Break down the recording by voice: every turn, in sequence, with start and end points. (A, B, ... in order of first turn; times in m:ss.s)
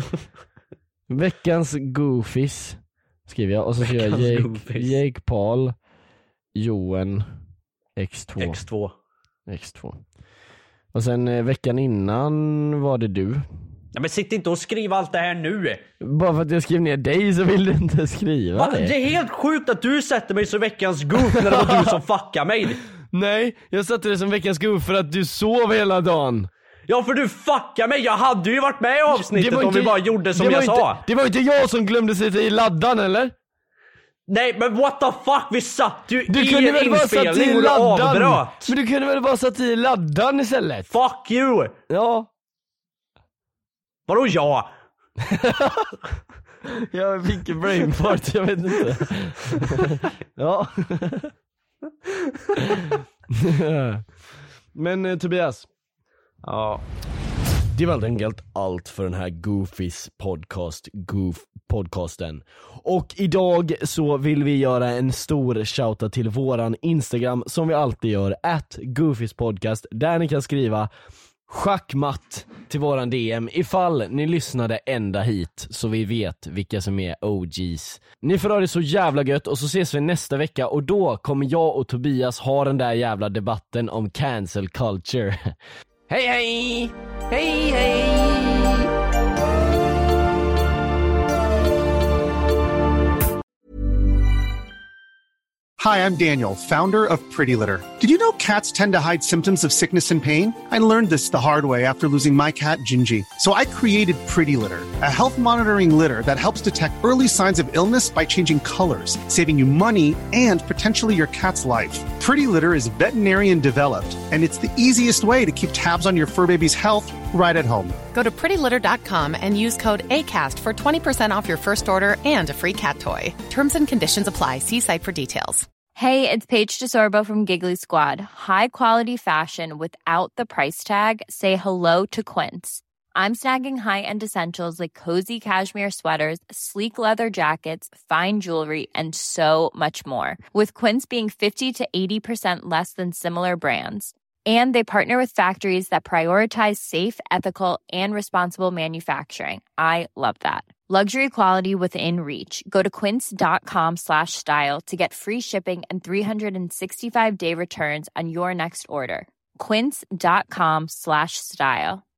0:01.1-0:05.7 A
0:03.8-0:05.0 B
0:06.6-0:07.2 A
0:08.0-0:08.6 A
0:08.4-0:08.9 B
0:09.5-0:10.0 A
0:10.9-0:13.4 A
0:13.9-0:15.8 B
0:16.0-0:18.9 A
0:18.6-0:22.8 B
0:21.3-0:22.0 A
0:23.1-0:26.5 A
0:26.9-0:31.0 B
0:29.1-0:33.3 A
0:34.3-0:38.7 B
0:36.3-0:40.9 A
0:40.9-0:41.7 B
0:41.9-0:42.3 A
0:44.1-0:44.7 B
0:45.2-0:45.9 A
0:46.7-0:51.3 A
0:53.3-0:54.1 A
0:54.7-0:55.7 A
0:56.4-0:56.8 B
0:57.7-1:10.9 A
1:11.5-1:25.5 A
1:26.1-1:28.9 A
1:35.8-1:58.0 C
1:58.1-2:05.6 D
2:06.0-2:42.0 E